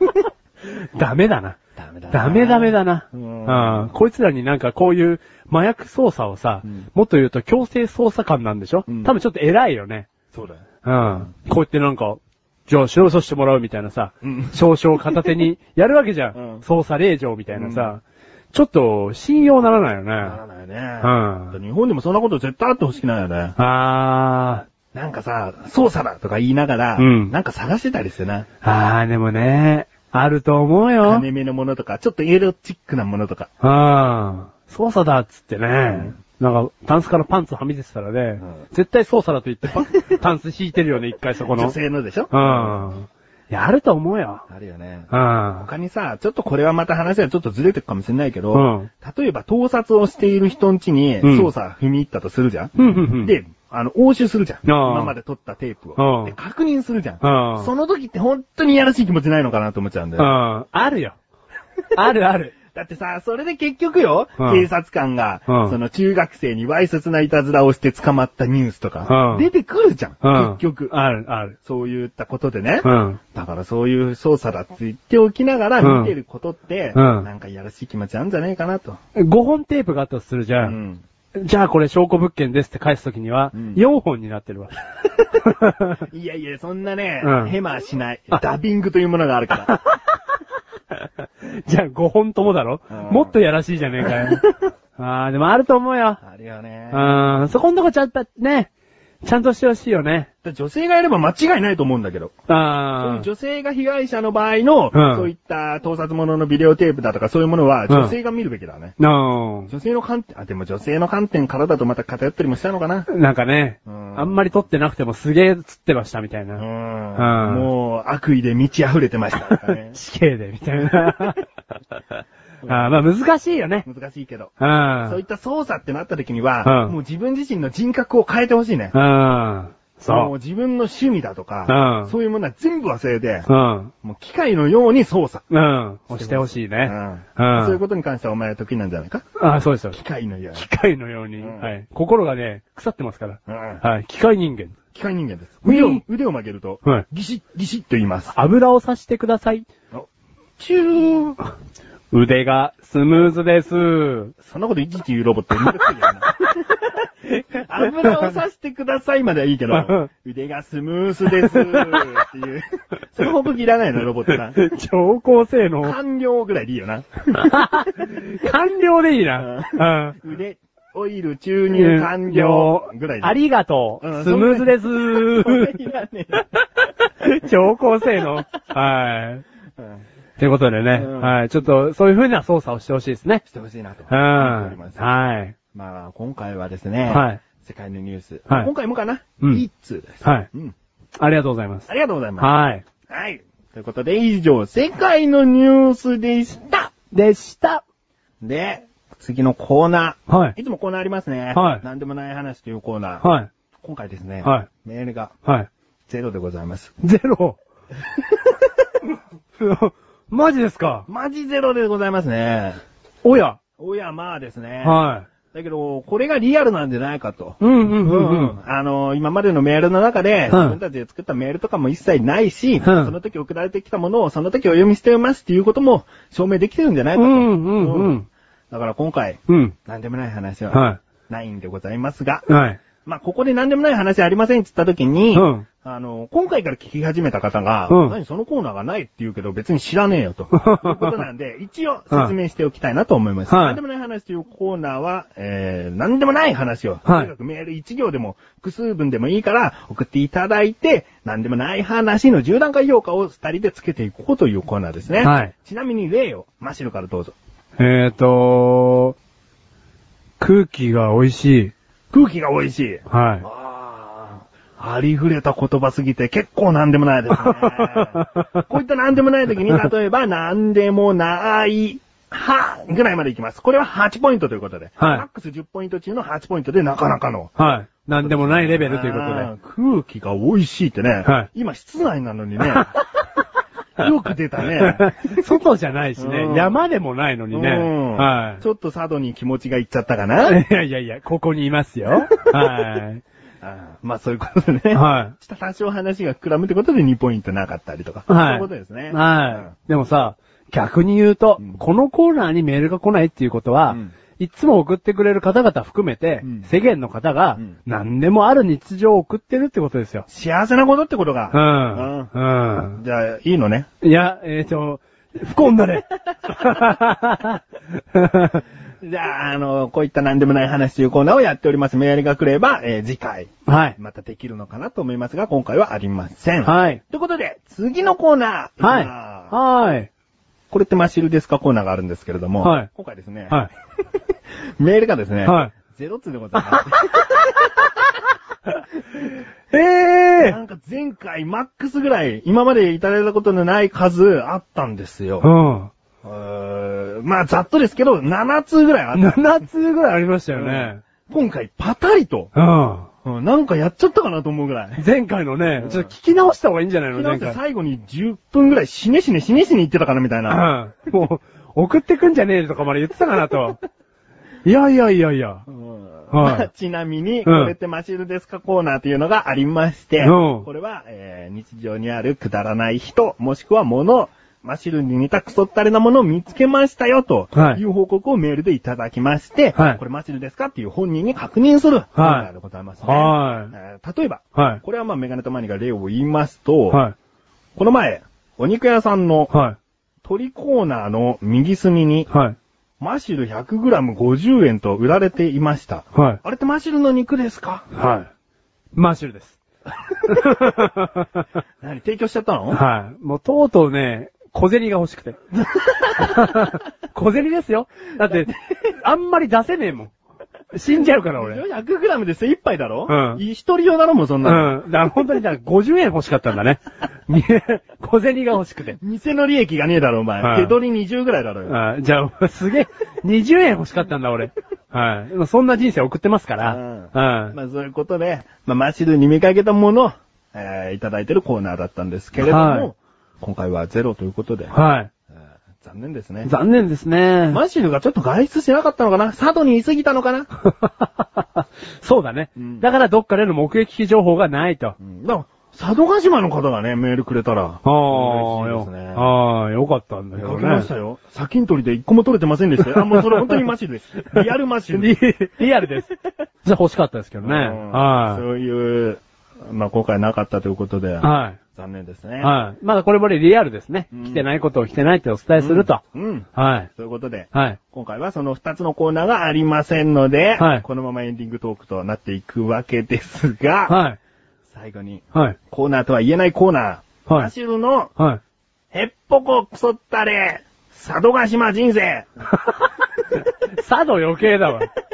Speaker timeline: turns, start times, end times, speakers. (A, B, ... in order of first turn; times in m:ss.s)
0:00.6-0:01.6 A
0:01.8-0:03.9 B
0:02.1-0:10.1 A
0:08.9-0:09.1 B
0:10.3-0:10.6 B
0:10.8-0:20.4 A
0:14.2-0:14.6 B
0:16.4-0:16.6 B
0:17.5-0:17.9 B
0:20.2-0:23.6 B
0:21.0-0:21.6 A
0:23.6-0:24.7 A
0:24.9-0:28.5 B
0:27.0-0:27.3 A
0:28.6-0:31.3 A
0:31.0-0:33.5 B
0:33.6-0:41.8 A
0:35.8-0:36.1 B
0:41.5-0:42.9 B
0:42.3-0:44.5 A
0:44.5-1:00.4 B
0:45.1-0:45.7 A
0:48.5-0:48.9 A
0:51.2-0:51.5 A
0:52.8-0:53.4 A
0:54.7-0:55.1 A
0:56.0-0:56.4 A
0:57.2-0:57.7 A
1:00.2-1:01.2 A
1:01.9-1:02.5 A
1:02.7-1:10.9 B
1:04.4-1:04.6 A
1:05.5-1:05.8 A
1:09.1-1:09.5 A
1:10.2-1:11.6 A
1:11.6-1:19.0 B
1:12.8-1:13.2 A
1:15.8-1:16.1 A
1:17.0-1:17.3 A
1:19.2-1:20.8 A
1:20.6-1:21.0 B
1:21.4-1:24.8 A
1:23.5-1:23.8 B
1:25.4-1:26.0 A
1:26.1-1:29.8 B
1:27.2-1:27.6 A
1:29.6-1:30.0 A
1:31.0-1:34.4 A
1:32.9-1:33.3 B
1:34.0-1:34.5 B
1:35.0-1:36.2 A
1:36.2-1:37.1 B
1:36.9-1:38.7 A
1:39.2-1:40.3 A
1:40.4-1:42.4 B
1:42.5-1:43.3 A
1:43.0-1:48.9 B
1:44.9-1:45.3 A
1:47.9-1:48.1 A
1:49.0-1:49.7 A
1:49.7-1:53.1 B
1:53.1-1:56.6 A
1:53.9-1:54.4 B
1:56.6-2:00.0 B
1:57.2-1:57.7 A
1:59.5-2:01.4 A
2:00.8-2:01.4 B
2:02.6-2:02.9 B
2:02.7-2:03.9 A
2:03.8-2:04.5 B
2:04.6-2:05.2 A
2:05.0-2:08.9 B
2:06.6-2:07.0 A
2:08.9-2:10.3 A
2:10.1-2:13.5 B
2:11.7-2:12.1 A
2:13.5-2:13.9 A
2:14.0-2:15.4 B
2:15.5-2:17.8 A
2:16.1-2:19.2 B
2:19.4-2:20.0 A
2:19.9-2:20.6 B
2:20.6-2:24.8 A
2:21.4-2:21.7 B
2:23.5-2:23.8 B
2:24.9-2:28.3 B
2:25.6-2:26.0 A
2:28.3-2:29.7 A
2:30.6-2:31.4 B
2:32.1-2:34.4 A
2:34.4-2:44.6 B
2:37.3-2:38.3 A
2:39.7-2:40.1 A
2:41.4-2:42.1 A
2:44.4-2:46.0 A
2:45.8-2:48.2 B
2:47.3-2:50.2 A
2:49.4-2:53.4 B
2:51.7-2:55.8 A
2:54.0-2:56.4 B
2:57.1-2:59.4 A
3:00.4-3:03.4 A
3:00.9-3:01.4 B
3:03.5-3:05.0 B
3:04.1-3:05.6 A
3:05.7-3:10.7 B
3:07.1-3:07.4 A
3:10.2-3:10.5 A
3:11.2-3:12.8 A
3:11.9-3:12.5 B
3:13.1-3:16.9 B
3:17.1-3:17.8 A
3:18.4-3:23.2 B
3:20.3-3:20.6 A
3:21.5-3:21.8 A
3:23.2-3:23.5 A
3:23.8-3:25.3 B
3:24.4-3:24.7 A
3:26.1-3:26.9 B
3:27.0-3:27.6 A
3:28.1-3:28.7 B
3:29.6-3:31.1 A
3:31.1-3:32.8 B
3:33.2-3:33.6 A
3:33.8-3:48.2 B
3:34.8-3:35.3 A
3:37.6-3:38.6 A
3:40.5-3:40.8 A
3:42.8-3:43.1 A
3:47.2-3:48.3 A
3:48.7-3:52.5 B
3:49.5-3:49.8 A
3:50.7-3:51.0 A
3:52.5-3:52.8 A
3:53.0-4:17.4 B
3:55.3-3:55.7 A
3:57.9-3:58.2 A
4:00.5-4:01.2 A
4:03.5-4:03.8 A
4:15.2-4:15.5 A
4:17.8-4:19.2 A
4:20.4-4:21.7 A
4:22.1-4:37.5 B
4:23.1-4:23.5 A
4:27.4-4:28.6 A
4:35.0-4:35.2 A
4:37.6-4:39.5 A
4:38.2-4:42.9 B
4:44.0-4:45.4 B
4:44.8-4:48.6 A
4:46.2-4:46.8 B
4:47.5-4:50.6 B
4:50.4-4:53.2 A
4:52.2-4:52.8 B
4:53.6-4:59.7 B
4:54.9-4:55.3 A
4:58.3-5:10.3 A
5:06.4-5:06.7 B
5:10.3-5:12.3 B
5:11.5-5:13.0 A
5:13.0-5:13.9 B
5:14.0-5:18.6 A
5:16.6-5:16.9 B
5:19.0-5:29.5 B
5:23.7-5:24.0 A
5:26.6-5:27.0 A
5:28.8-5:30.1 A
5:30.7-5:33.6 B
5:32.6-5:32.9 A
5:34.8-5:38.1 B
5:35.4-5:35.7 A
5:36.6-5:37.2 A
5:39.7-5:40.6 A
5:40.4-5:45.5 B
5:45.4-5:45.9 A
5:46.2-5:49.4 B
5:49.1-5:51.0 A
5:50.5-5:52.5 B
5:52.6-5:53.1 A
5:53.2-5:55.0 B
5:55.0-5:57.6 A
5:55.8-5:56.1 B
5:57.1-6:00.7 B
6:00.5-6:03.8 A
6:04.6-6:05.7 A
6:05.7-6:27.0 B
6:06.3-6:06.7 A
6:07.4-6:07.7 A
6:10.2-6:10.7 A
6:17.6-6:17.8 A
6:19.8-6:20.0 A
6:22.2-6:22.5 A
6:23.0-6:23.7 A
6:24.6-6:24.8 A
6:26.9-6:27.2 A
6:27.8-6:29.5 B
6:29.5-6:29.8 A
6:30.2-6:32.3 B
6:32.3-6:32.6 A
6:33.0-6:37.9 B
6:36.2-6:36.4 A
6:37.9-6:38.3 A
6:39.0-6:39.6 A
6:40.2-6:41.4 A
6:41.8-6:42.8 B
6:42.7-6:45.4 A
6:45.7-6:46.7 B
6:46.1-6:50.1 A
6:50.7-6:51.6 A
6:51.3-6:54.8 B
6:53.1-6:53.4 A
6:54.4-6:59.0 A
6:59.0-7:01.8 B
7:00.4-7:00.8 A
7:01.7-7:07.6 A
7:06.6-7:14.7 B
7:12.4-7:12.9 A
7:14.7-7:15.1 A
7:15.8-7:16.5 B
7:16.4-7:17.6 A
7:17.5-7:20.5 B
7:20.6-7:25.0 A
7:22.6-7:22.8 B
7:25.0-7:29.3 B
7:27.8-7:30.9 A
7:30.4-7:35.2 B
7:32.9-7:33.6 A
7:34.9-7:38.4 A
7:37.4-7:42.5 B
7:41.2-7:41.6 A
7:42.4-7:46.0 A
7:44.1-7:44.4 B
7:45.6-7:54.0 B
7:46.6-7:46.9 A
7:47.5-7:47.8 A
7:50.6-7:50.8 A
7:53.9-7:54.2 A
7:54.7-7:58.1 B
7:58.9-8:02.5 B
8:02.5-8:04.9 A